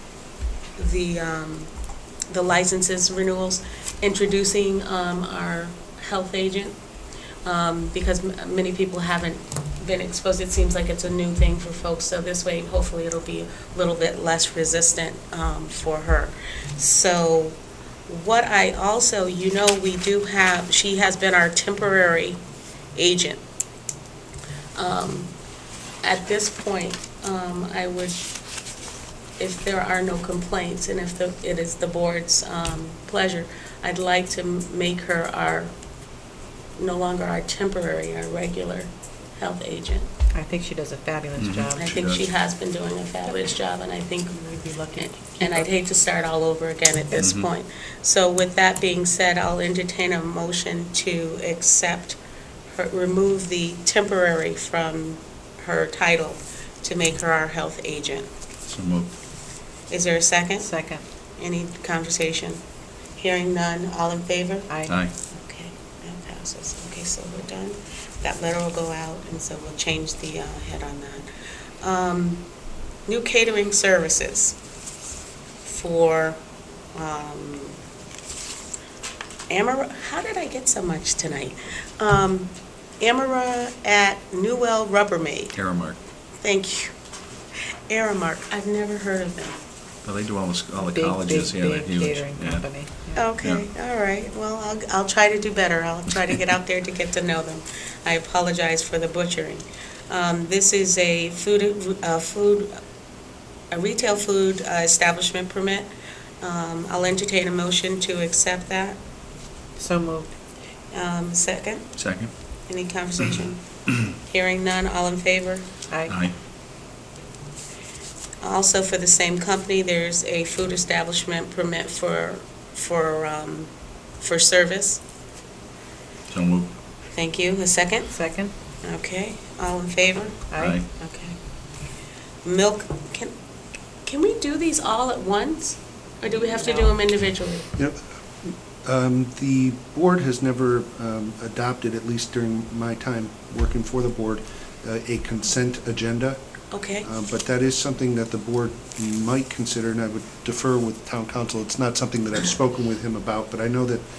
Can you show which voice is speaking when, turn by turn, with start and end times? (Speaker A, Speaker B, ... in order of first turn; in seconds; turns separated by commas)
Speaker A: 0.8-1.7, Speaker A: 2.3-6.8, Speaker A: 7.4-17.6, Speaker A: 18.1-22.4, Speaker A: 22.9-23.4, Speaker A: 24.8-25.3, Speaker A: 26.0-28.3, Speaker A: 29.4-35.7, Speaker A: 36.8-40.1, Speaker B: 40.3-41.9, Speaker C: 41.4-42.3, Speaker A: 41.8-52.2, Speaker B: 45.2-45.6, Speaker C: 47.2-47.5, Speaker A: 52.7-58.3, Speaker C: 58.7-59.1, Speaker A: 59.9-60.7, Speaker B: 60.6-61.0, Speaker A: 61.4-62.6, Speaker A: 63.2-64.7, Speaker C: 64.9-65.1, Speaker A: 65.3-71.3, Speaker A: 71.8-72.4, Speaker A: 73.1-74.5, Speaker A: 75.6-76.4, Speaker A: 76.9-77.8, Speaker A: 79.5-85.5, Speaker C: 85.5-86.0, Speaker A: 86.4-86.9, Speaker A: 87.9-89.6, Speaker C: 90.0-92.7, Speaker B: 90.8-93.2, Speaker A: 93.2-102.8, Speaker C: 93.4-93.7, Speaker A: 103.7-105.9, Speaker A: 106.4-109.0, Speaker B: 109.8-110.3, Speaker A: 110.9-111.9, Speaker C: 112.0-112.3, Speaker A: 112.7-115.7, Speaker C: 116.1-116.3, Speaker A: 118.4-125.0, Speaker C: 126.3-126.7, Speaker A: 127.1-128.1, Speaker B: 128.1-128.5, Speaker A: 128.8-131.4, Speaker B: 130.5-130.8, Speaker C: 130.6-130.8, Speaker A: 132.4-133.3, Speaker A: 134.0-137.7, Speaker B: 136.6-136.9, Speaker D: 137.8-146.4, Speaker A: 146.7-147.1, Speaker D: 147.0-154.0